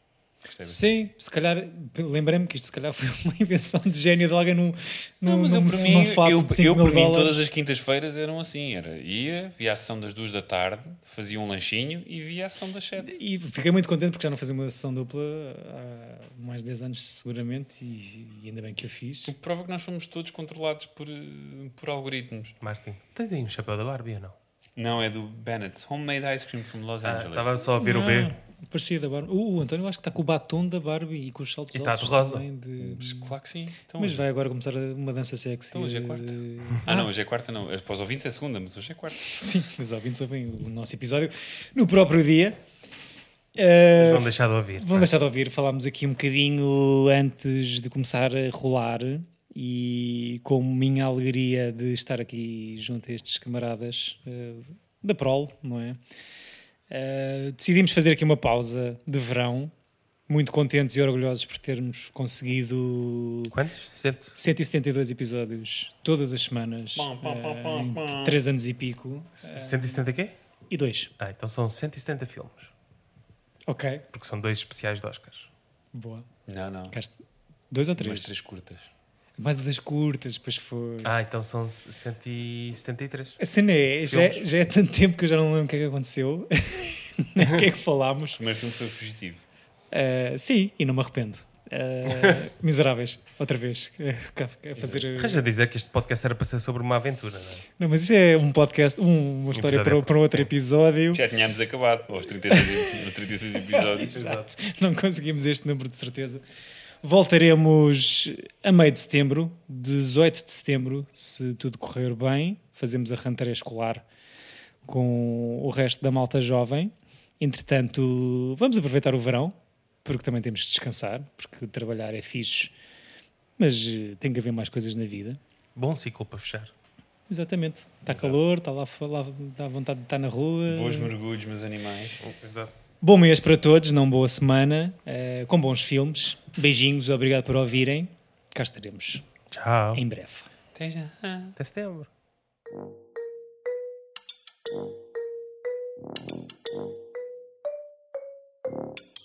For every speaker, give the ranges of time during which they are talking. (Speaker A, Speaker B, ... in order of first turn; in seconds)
Speaker A: 0.5-1.0, 5.2-13.2, 19.3-22.6, 24.8-27.7, 32.8-34.2, 35.7-39.3, 67.0-68.4, 76.5-77.0, 78.0-78.9, 88.4-89.4, 101.1-104.2, 130.7-132.2, 140.8-141.6
Speaker B: 0.7-7.4, 13.0-19.3, 27.8-33.4, 34.0-37.1, 39.3-42.6, 43.6-56.0, 56.9-59.7, 60.3-63.5, 64.4-70.0, 70.7-71.1, 73.7-74.0, 75.9-76.3, 77.7-78.3, 79.4-81.1, 83.4-88.4, 89.9-95.5, 97.8-101.2, 102.5-102.9, 103.7-106.4, 107.0-114.0, 114.9-122.7, 123.6-125.4, 127.3-131.1, 133.0-139.2, 139.9-140.5
Speaker C: 22.6-24.4, 27.0-28.3, 31.7-32.5, 44.0-45.1, 63.5-64.4, 69.5-70.4, 71.2-72.7, 74.1-75.5, 81.0-83.4, 84.0-84.5, 92.1-92.4, 94.8-97.7, 99.5-100.5, 104.0-104.5, 125.8-126.7, 132.2-132.7, 139.5-140.0, 141.6-142.1